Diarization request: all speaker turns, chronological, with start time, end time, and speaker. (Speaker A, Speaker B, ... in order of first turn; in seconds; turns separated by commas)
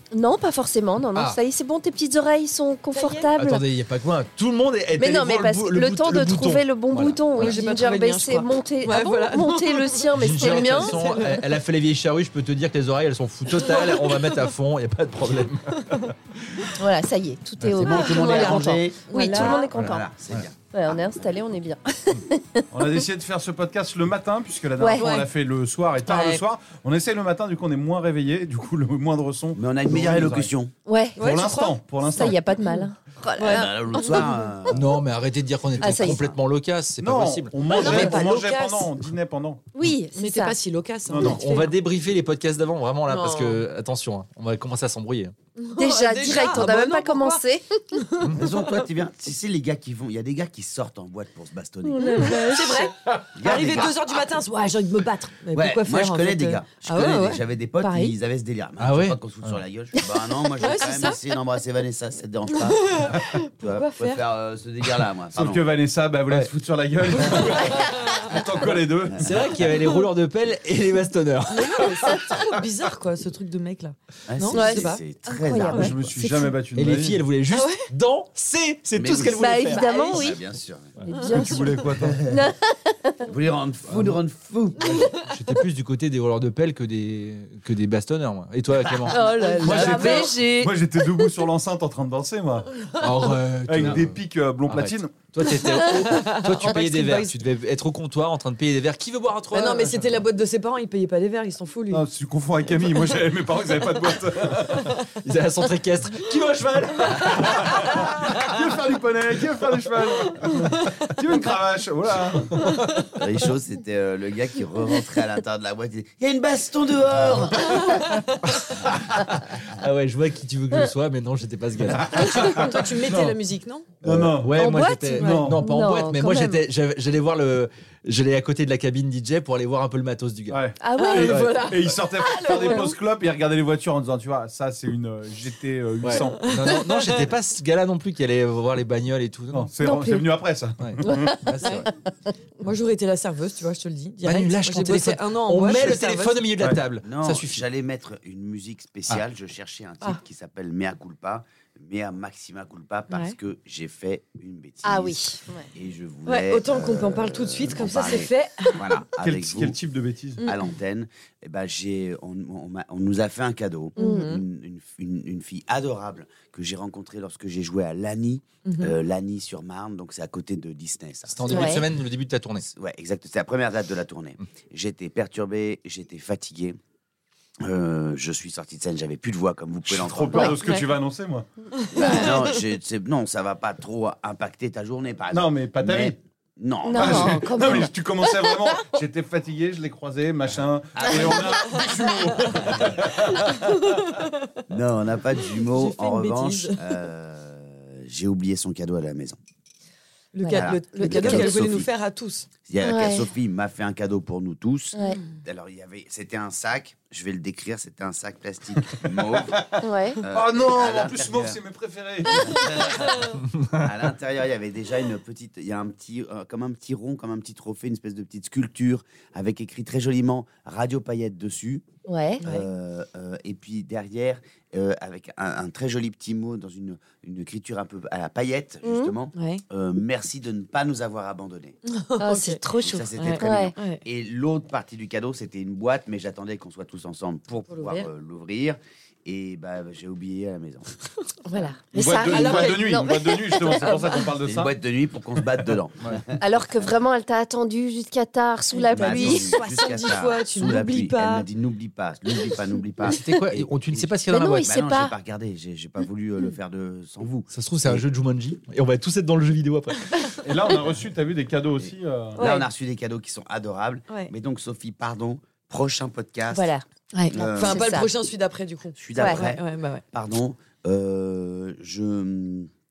Speaker A: 0.1-3.6, Speaker B: 2.9-3.3, Speaker C: 3.4-7.6, Speaker A: 5.0-11.1, Speaker B: 7.4-11.5, Speaker C: 10.2-16.7, Speaker B: 13.6-14.4, Speaker A: 16.8-20.1, Speaker C: 17.6-18.0, Speaker D: 17.7-21.4, Speaker B: 17.9-19.7, Speaker A: 20.7-23.0, Speaker E: 22.7-30.5, Speaker A: 24.8-25.1, Speaker B: 24.9-25.3, Speaker B: 26.1-26.4, Speaker D: 29.6-30.7, Speaker A: 30.9-31.2, Speaker B: 31.2-31.8, Speaker E: 31.2-32.4, Speaker A: 32.0-34.4, Speaker B: 32.6-34.4, Speaker D: 33.4-34.9, Speaker C: 34.7-37.9, Speaker D: 35.8-36.4, Speaker A: 35.8-36.2, Speaker E: 37.0-39.6, Speaker B: 37.7-38.9, Speaker A: 39.7-40.6, Speaker B: 40.1-41.7, Speaker E: 41.1-41.4, Speaker C: 41.1-45.3, Speaker B: 43.1-43.6, Speaker B: 45.6-47.4, Speaker A: 45.8-47.8, Speaker B: 47.9-48.8, Speaker D: 48.3-52.4, Speaker A: 51.8-52.9, Speaker B: 52.0-57.4, Speaker D: 53.3-54.0, Speaker D: 55.5-65.6, Speaker A: 57.8-58.1, Speaker C: 58.8-59.6, Speaker B: 60.6-61.2, Speaker A: 60.8-61.1, Speaker B: 62.9-64.2, Speaker E: 65.3-69.3, Speaker B: 67.8-68.1, Speaker C: 69.2-72.6, Speaker B: 71.5-75.0, Speaker D: 74.3-76.2, Speaker A: 74.5-76.5, Speaker E: 75.7-77.2, Speaker C: 76.7-79.9, Speaker B: 77.5-77.9, Speaker D: 79.0-81.0, Speaker A: 79.2-80.4, Speaker A: 81.0-83.3, Speaker B: 81.1-81.6, Speaker E: 81.3-82.2, Speaker D: 82.0-82.5, Speaker D: 83.2-85.0, Speaker C: 83.9-84.2, Speaker B: 84.8-85.3, Speaker C: 85.1-89.3, Speaker A: 89.1-91.0, Speaker B: 89.1-90.3, Speaker E: 89.6-92.9, Speaker C: 93.0-94.2, Speaker E: 93.7-95.2, Speaker C: 94.7-100.1, Speaker B: 95.5-97.3, Speaker B: 99.5-102.0, Speaker E: 101.9-105.0, Speaker C: 105.2-108.4, Speaker E: 107.2-112.6, Speaker B: 107.3-108.5, Speaker B: 110.4-110.9, Speaker D: 113.1-118.0, Speaker B: 117.6-118.3, Speaker C: 118.9-123.3, Speaker E: 122.0-123.3, Speaker B: 122.1-123.9, Speaker E: 124.0-125.6, Speaker C: 124.0-130.6, Speaker A: 124.6-126.6, Speaker E: 130.5-136.6, Speaker A: 130.8-132.9, Speaker B: 130.9-132.9, Speaker C: 136.0-139.7, Speaker B: 136.4-137.2, Speaker E: 139.5-141.4, Speaker A: 139.8-140.3, Speaker C: 140.8-141.9, Speaker A: 141.0-141.9, Speaker B: 142.6-146.4, Speaker C: 144.2-147.6, Speaker D: 147.0-159.8, Speaker A: 154.8-155.7, Speaker B: 156.2-158.8, Speaker E: 159.1-160.4, Speaker D: 160.4-171.9, Speaker B: 163.9-164.4, Speaker A: 164.0-164.3, Speaker B: 168.7-168.9, Speaker C: 171.3-172.7, Speaker A: 171.5-171.8, Speaker D: 172.7-176.8, Speaker D: 177.6-180.6, Speaker E: 179.8-181.4, Speaker A: 180.3-180.8, Speaker B: 181.8-182.4, Speaker D: 181.9-187.8, Speaker E: 185.3-186.2, Speaker A: 186.8-187.9, Speaker E: 187.0-193.8, Speaker D: 190.9-191.8, Speaker B: 191.6-194.5, Speaker D: 192.7-192.9, Speaker D: 194.7-199.4, Speaker B: 195.5-196.9, Speaker B: 200.3-202.5, Speaker A: 200.4-201.7, Speaker D: 200.5-201.9, Speaker D: 202.6-209.7, Speaker A: 202.8-203.3, Speaker B: 205.0-205.3, Speaker E: 209.0-212.9, Speaker A: 209.8-210.2, Speaker D: 210.2-211.6, Speaker D: 212.3-221.8, Speaker A: 222.1-222.4, Speaker D: 222.4-231.8, Speaker A: 228.8-229.1, Speaker B: 229.3-229.6, Speaker B: 231.9-232.6, Speaker A: 232.2-233.7, Speaker D: 232.8-240.9, Speaker B: 233.2-234.0, Speaker B: 237.7-238.1, Speaker A: 241.5-243.9, Speaker E: 241.9-244.7, Speaker B: 242.3-244.3, Speaker D: 244.4-246.9, Speaker A: 246.4-249.6, Speaker B: 248.7-251.5, Speaker D: 248.9-258.0, Speaker C: 253.0-254.7, Speaker A: 254.3-255.1, Speaker C: 257.5-260.5, Speaker E: 260.4-262.4, Speaker D: 261.8-266.7, Speaker B: 262.4-262.7, Speaker A: 266.5-268.1, Speaker D: 267.3-267.9, Speaker B: 267.4-270.0, Speaker D: 269.0-272.7, Speaker A: 269.1-269.4